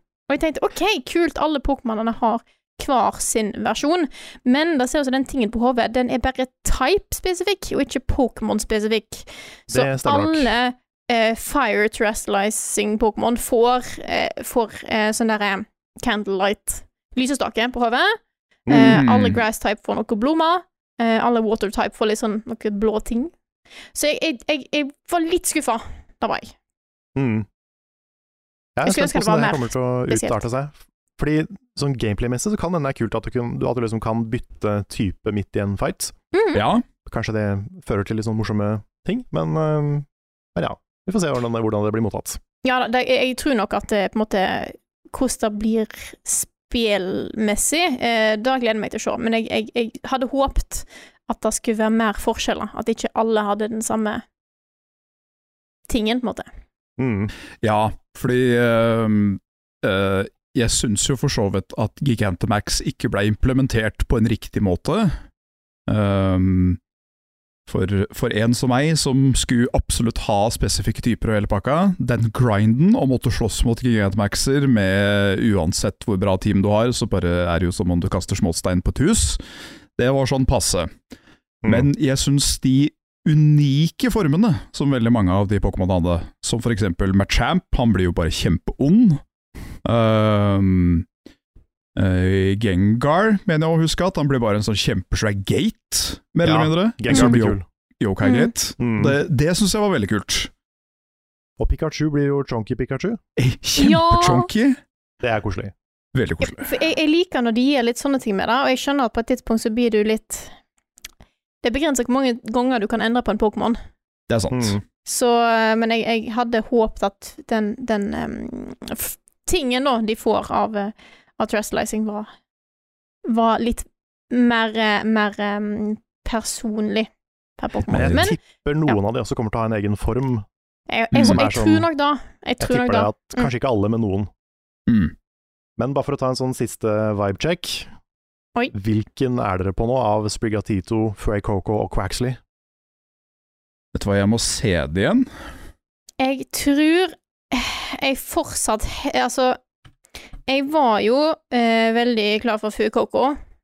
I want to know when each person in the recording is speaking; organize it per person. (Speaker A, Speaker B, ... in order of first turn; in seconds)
Speaker A: 0.3-23.3, 23.9-26.5, 28.9-30.4, 36.3-36.6, 42.6-54.2, 55.9-56.5, 98.2-98.5, 103.8-104.5, 106.4-110.5, 111.6-113.8, 115.0-122.3, 123.2-129.0, 130.9-133.5, 146.2-149.6, 150.5-153.4
Speaker B: 9.7-10.5, 18.7-19.0, 27.2-27.5, 28.8-36.1, 37.1-42.4, 57.0-57.3, 96.4-97.6, 98.8-99.2, 101.6-103.2, 105.2-105.7, 114.5-114.8, 127.9-130.5, 131.2-131.9, 132.6-134.3, 135.8-137.9, 138.7-142.4
Speaker C: 18.8-19.4, 36.5-36.8, 57.6-65.2, 65.9-66.8, 67.7-79.4, 80.0-80.9, 81.7-89.2, 89.8-91.1, 92.0-100.5, 103.4-104.8, 106.1-106.7, 114.3-114.8, 127.9-128.2, 131.2-131.4, 134.9-135.1, 143.9-145.3